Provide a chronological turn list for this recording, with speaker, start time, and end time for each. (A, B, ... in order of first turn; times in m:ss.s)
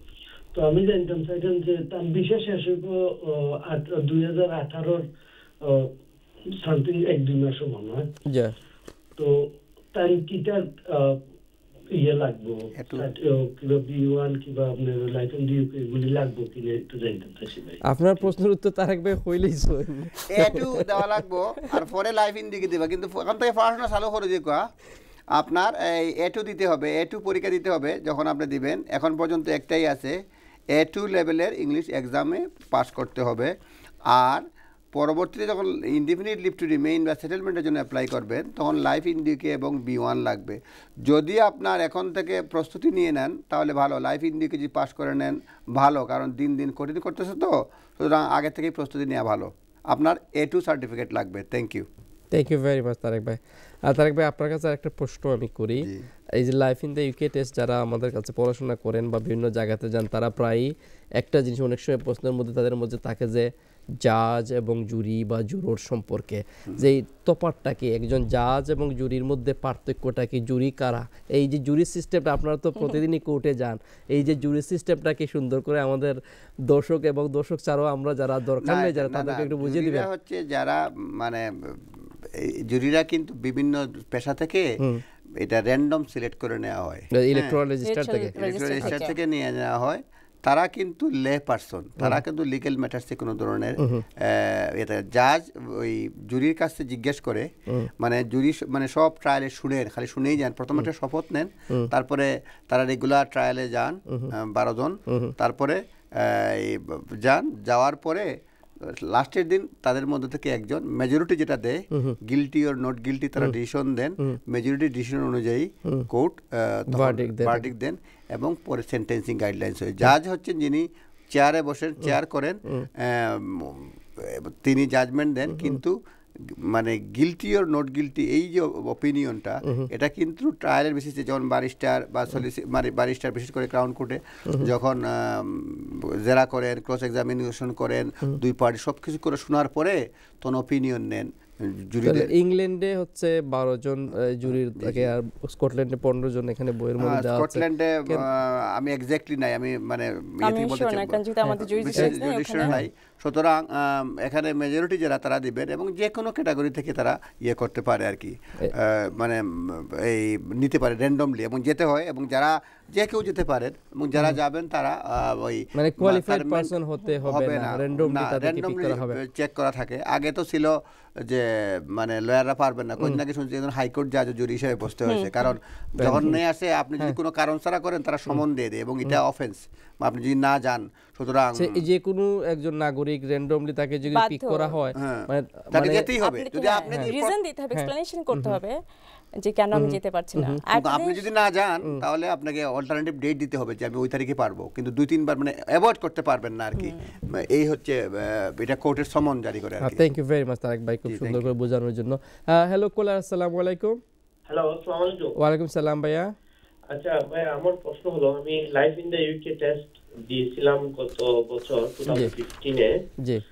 0:00.5-0:05.0 A
0:05.6-0:05.9 A
0:06.6-0:08.1 A
0:08.3-0:08.5 B
0:09.2-0:11.2 A
0:12.0-0:18.3 A
0:12.8-0:13.1 C
0:17.8-0:20.9 B
0:20.3-0:24.6 C
0:25.3-0:30.2 C
0:30.7-0:33.5 C
0:34.1-0:51.9 C
0:52.3-1:20.0 B
0:55.8-0:56.0 C
1:18.6-1:24.7 C
1:25.4-1:27.6 C
1:27.1-1:29.0 B
1:27.8-1:29.1 D
1:28.4-1:48.3 C
1:33.8-1:34.0 B
1:45.1-1:45.3 B
1:48.8-2:06.0 C
1:51.9-1:52.2 B
1:56.9-1:57.6 B
2:06.5-2:22.3 C
2:22.0-2:28.2 B
2:24.8-2:25.1 C
2:27.0-2:46.7 C
2:30.4-2:32.7 D
2:45.8-2:49.2 B
2:47.2-3:01.7 C
2:55.1-2:55.3 D
2:56.0-2:56.4 B
3:01.5-3:06.1 B
3:04.1-3:04.7 D
3:05.0-3:07.3 C
3:06.2-3:08.8 D
3:07.8-3:08.6 B
3:09.4-3:11.2 D
3:09.7-3:10.6 B
3:10.7-3:20.0 C
3:16.8-3:17.1 D
3:19.8-3:24.0 B
3:21.1-3:21.5 C
3:24.5-3:25.3 E
3:25.3-3:26.3 B
3:26.9-3:32.9 E